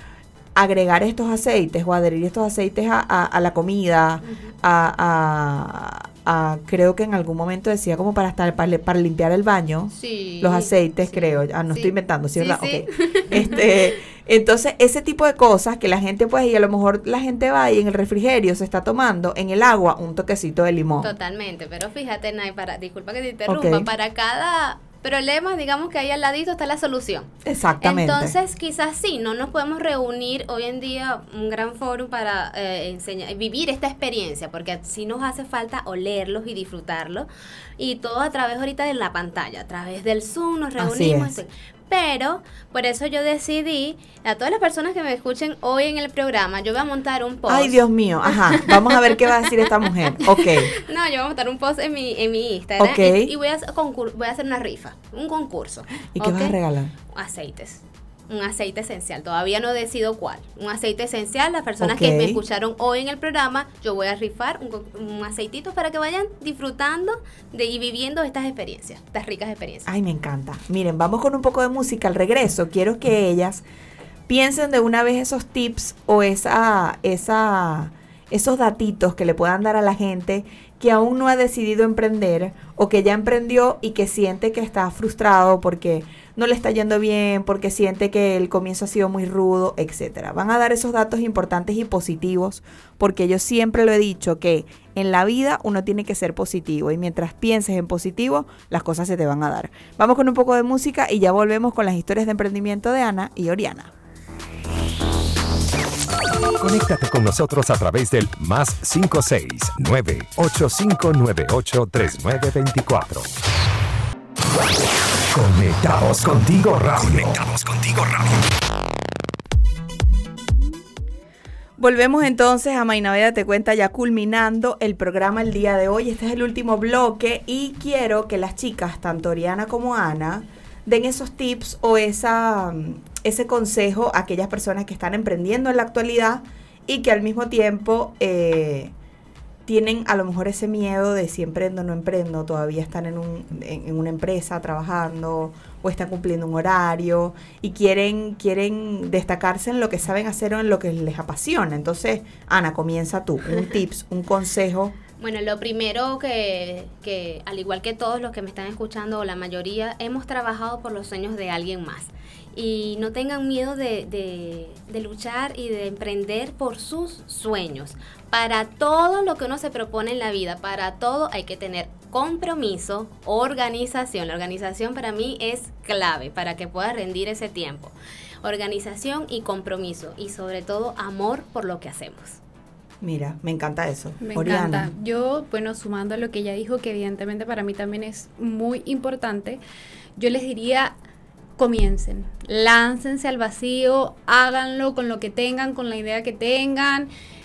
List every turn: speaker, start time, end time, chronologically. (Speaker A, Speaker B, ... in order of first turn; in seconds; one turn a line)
Speaker A: 0.5-21.1
Speaker B: 4.2-4.5
Speaker B: 9.9-13.9
Speaker B: 21.0-47.8
Speaker A: 23.4-23.9
Speaker A: 27.4-28.4
Speaker A: 40.8-41.4
Speaker A: 47.5-50.8
Speaker B: 48.3-56.5
Speaker A: 52.8-53.3
Speaker A: 56.1-56.9
Speaker B: 57.1-69.9
Speaker A: 61.8-62.4
Speaker A: 69.9-73.6
Speaker A: 74.3-103.9
Speaker C: 106.6-113.3
Speaker C: 115.3-118.5
Speaker A: 121.8-138.9
Speaker A: 139.7-154.9
Speaker B: 155.2-182.4
Speaker A: 183.0-184.9
Speaker D: 184.2-189.6
Speaker D: 190.2-190.9
Speaker D: 191.6-197.1